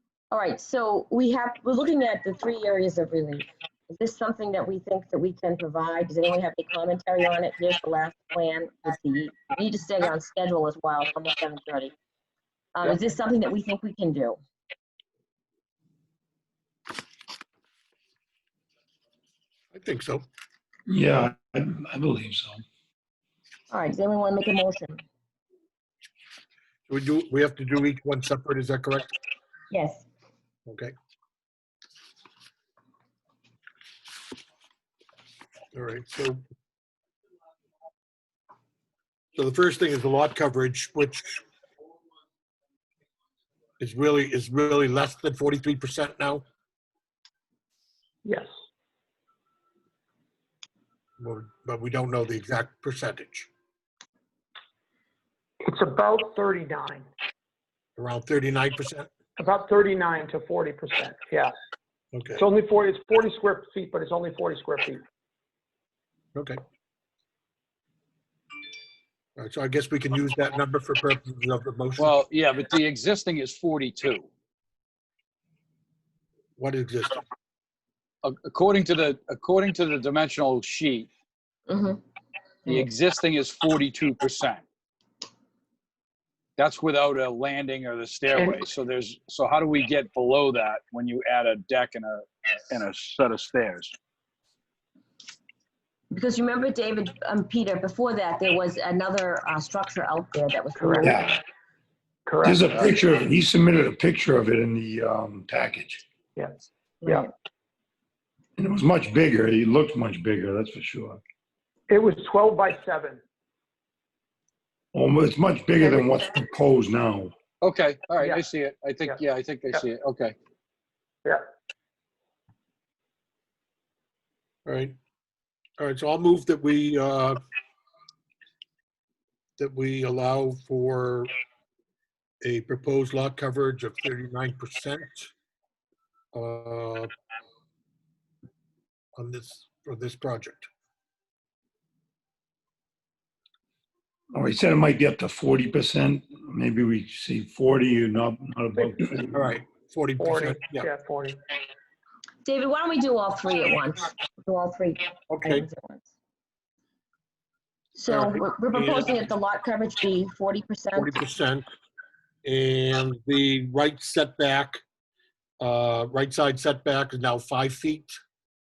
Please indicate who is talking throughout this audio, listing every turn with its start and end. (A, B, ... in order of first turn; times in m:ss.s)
0:00.3-0:11.9 A
0:12.8-0:14.4 A
0:19.7-0:20.2 B
0:20.9-0:22.6 C
0:23.7-0:25.0 A
0:26.9-0:29.1 B
0:29.7-0:30.1 A
0:30.7-0:30.9 B
0:35.7-0:36.4 B
0:39.4-0:41.4 B
0:43.8-0:46.4 B
0:48.2-0:48.5 D
0:51.2-0:53.5 B
0:55.6-0:57.1 D
0:58.0-0:59.1 B
0:59.4-1:01.5 D
1:02.1-1:02.5 B
1:02.4-1:05.0 D
1:06.4-1:06.6 B
1:09.4-1:12.2 B
1:12.0-1:14.3 E
1:16.6-1:17.2 B
1:18.2-1:21.1 E
1:21.7-1:22.0 A
1:22.7-1:24.6 E
1:26.6-1:33.9 E
1:36.1-1:41.2 A
1:40.8-1:41.1 D
1:41.0-1:41.4 C
1:42.3-1:42.7 D
1:42.4-1:46.0 C
1:46.4-1:47.3 D
1:47.0-1:47.3 A
1:48.6-1:51.2 C
1:51.9-1:53.2 D
1:54.9-1:57.3 C
1:57.6-2:00.4 E
2:04.7-2:05.0 B
2:05.8-2:07.4 B
2:09.6-2:11.3 B
2:12.4-2:15.3 B
2:16.3-2:17.1 B
2:19.2-2:20.7 B
2:24.3-2:29.5 C
2:29.3-2:30.9 B
2:30.2-2:31.4 D
2:32.4-2:36.1 A
2:35.3-2:35.7 B
2:38.0-2:41.2 A
2:38.1-2:39.1 B
2:41.0-2:41.7 B
2:42.4-2:44.8 B
2:45.6-2:48.2 B